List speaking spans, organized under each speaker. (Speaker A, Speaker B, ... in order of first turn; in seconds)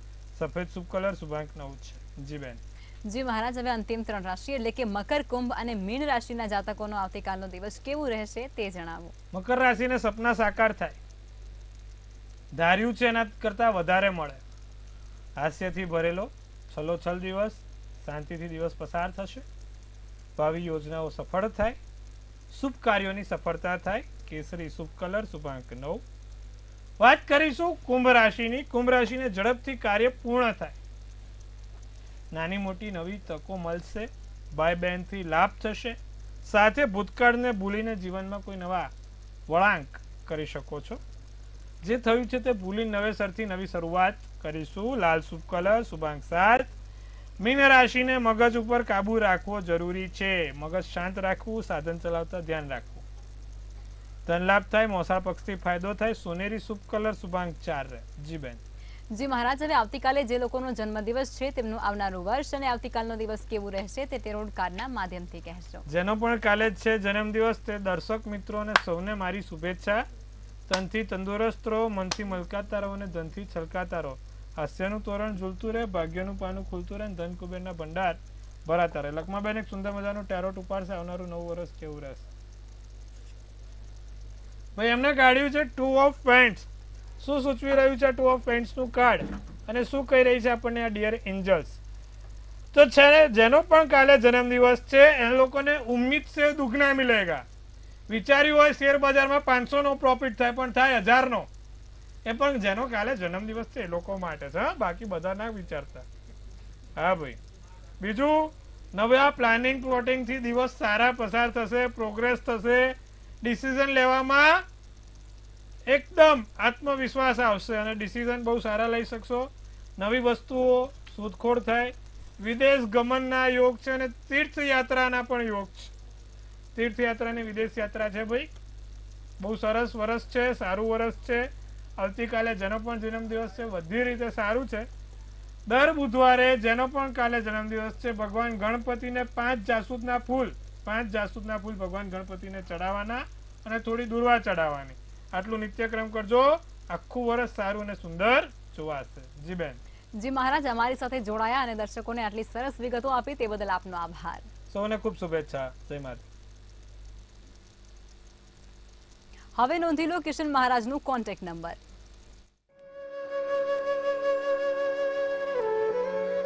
Speaker A: 0.3-2.6, 9.3-11.0, 12.5-14.4, 15.4-19.4, 20.4-21.8, 22.5-26.0, 27.0-30.8, 32.3-38.9, 39.5-41.0, 41.8-46.7, 47.4-53.0, 54.2-58.6, 65.9-70.0, 70.7-82.3, 84.8-86.7, 87.2-91.8, 92.7-97.5, 98.1-101.5, 102.2-106.0, 107.0-107.4, 108.0-114.6, 115.9-125.9, 126.7-128.5, 129.4-134.9, 135.7-149.8, 154.7-156.2
Speaker B: 3.0-9.1, 59.1-65.8, 150.1-154.5, 159.6-161.8